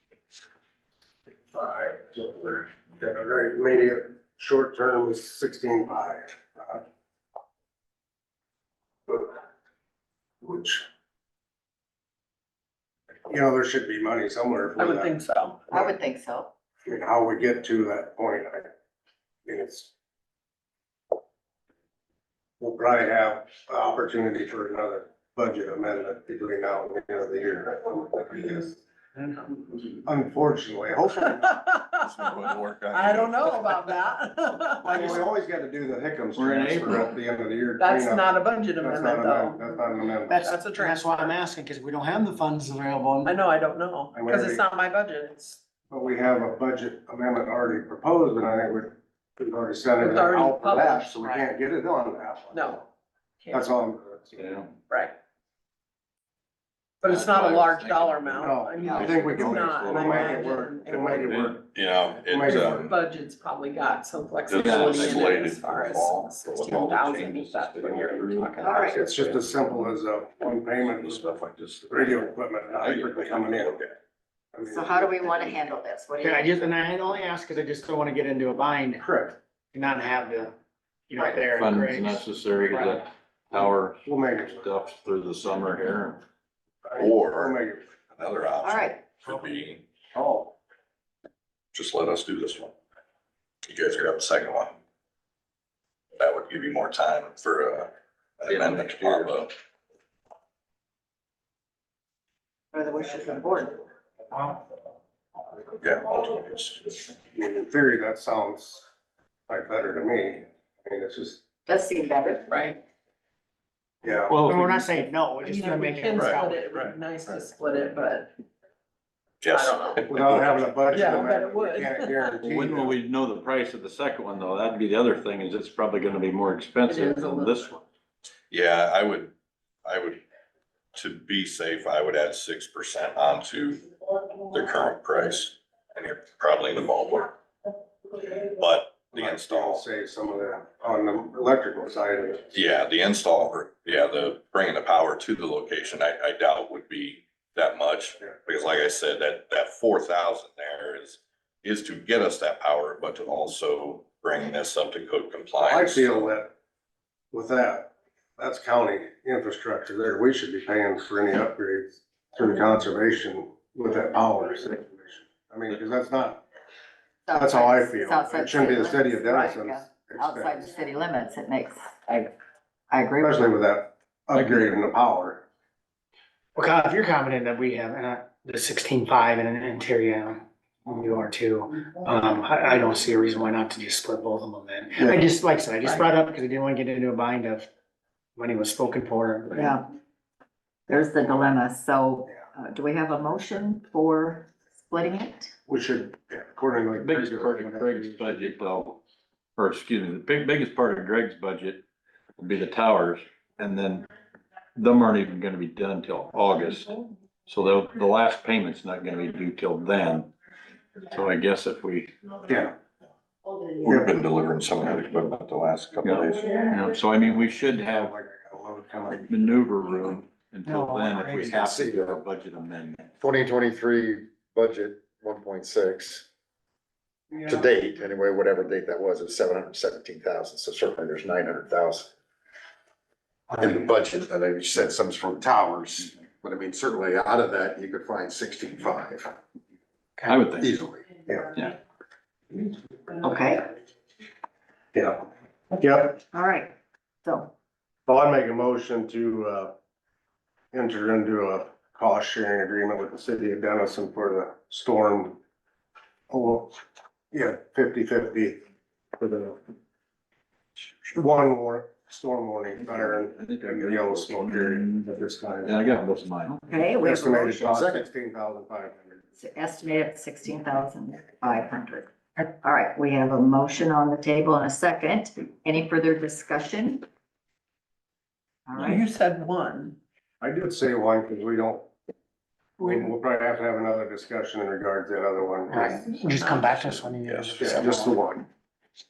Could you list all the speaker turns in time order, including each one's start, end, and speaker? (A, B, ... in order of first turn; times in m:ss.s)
0:01.5-0:06.8 A
0:09.1-0:09.3 A
0:10.4-0:10.8 A
0:13.3-0:15.2 A
0:14.8-0:15.6 B
0:15.7-0:16.5 C
0:16.8-0:18.7 A
0:19.4-0:19.9 A
0:22.6-0:28.8 A
0:29.4-0:31.6 A
0:31.3-0:35.2 B
0:32.0-0:33.9 D
0:34.8-0:40.5 A
0:36.3-0:37.1 E
0:37.8-0:41.3 B
0:40.3-0:43.4 F
0:43.2-0:45.6 B
0:44.1-0:44.6 A
0:45.9-0:52.8 A
0:50.0-0:51.2 B
0:51.2-0:51.5 F
0:52.5-0:52.8 B
0:53.4-0:53.7 B
0:53.5-0:54.6 A
0:54.4-0:54.7 E
0:54.9-0:55.1 B
0:57.0-1:01.4 B
0:57.0-1:01.6 E
0:58.4-1:01.7 A
0:58.8-0:59.1 C
1:01.7-1:02.9 D
1:02.2-1:02.9 A
1:02.4-1:09.0 B
1:04.5-1:08.6 D
1:04.6-1:05.1 E
1:08.6-1:09.2 C
1:08.9-1:11.3 A
1:10.9-1:12.1 D
1:11.9-1:13.8 A
1:12.8-1:13.9 D
1:14.5-1:15.2 A
1:14.7-1:16.8 C
1:16.2-1:19.0 F
1:19.0-1:19.4 A
1:19.7-1:20.5 F
1:21.1-1:23.0 F
1:21.5-1:24.0 E
1:23.5-1:24.7 A
1:24.6-1:26.2 E
1:26.8-1:27.8 A
1:27.0-1:29.8 D
1:28.6-1:29.1 C
1:31.7-1:32.7 D
1:33.6-1:34.7 D
1:36.2-1:39.5 D
1:38.5-1:39.3 E
1:42.7-1:43.8 C
1:45.8-1:47.1 D
1:47.3-1:48.9 A
1:49.5-1:51.4 A
1:51.6-1:52.8 C
1:52.5-1:52.8 B
1:54.0-1:54.8 A
1:54.3-1:56.6 F
1:55.4-1:58.3 B
1:56.1-1:56.4 D
1:56.7-1:57.4 A
1:59.4-2:00.5 D
1:59.5-2:00.4 B
2:00.0-2:03.0 A
2:00.9-2:02.3 B
2:02.4-2:07.8 E
2:06.9-2:07.7 B
2:08.5-2:09.3 D
2:09.8-2:10.2 D
2:10.9-2:13.8 D
2:14.5-2:17.4 D
2:18.2-2:19.8 D
2:19.1-2:22.5 A
2:22.5-2:36.4 D
2:35.6-2:36.5 A
2:37.3-2:46.4 A
2:47.2-2:52.3 C
2:47.3-2:50.7 A
2:52.9-2:53.6 C
2:53.2-2:55.4 A
2:54.3-2:54.7 E
2:56.6-3:07.7 F
3:08.4-3:09.7 F
3:09.5-3:09.8 C
3:10.9-3:15.5 C
3:15.7-3:18.4 A
3:17.0-3:19.0 E
3:19.6-3:21.8 E
3:22.4-3:24.1 E
3:24.8-3:30.3 E
3:31.1-3:32.1 E
3:32.5-3:32.7 A
3:33.8-3:36.7 D
3:33.8-3:34.1 A
3:36.0-3:38.1 E
3:37.9-3:39.3 A
3:39.1-3:43.0 E
3:40.6-3:41.6 F
3:41.5-3:42.2 G
3:43.2-3:46.2 G
3:47.3-3:47.6 A
3:47.4-3:52.1 G
3:53.5-3:59.3 G
4:00.3-4:00.8 E
4:00.6-4:01.0 G
4:03.2-4:03.7 C
4:04.9-4:05.2 A
4:05.8-4:06.2 A
4:06.2-4:07.5 C
4:08.0-4:09.7 A
4:10.7-4:15.4 A
4:16.3-4:16.8 A
4:17.3-4:18.6 A
4:19.2-4:19.6 A
4:21.1-4:25.8 A
4:22.8-4:25.1 E
4:25.6-4:26.6 E
4:26.5-4:27.8 C
4:27.0-4:29.2 A
4:27.6-4:28.1 G
4:29.4-4:37.0 C
4:38.7-4:39.0 C
4:38.8-4:40.0 B
4:40.4-4:41.8 A
4:42.8-4:46.1 A
4:45.7-4:48.2 F
4:46.3-4:47.0 B
4:47.2-4:47.8 D
4:47.6-4:48.4 A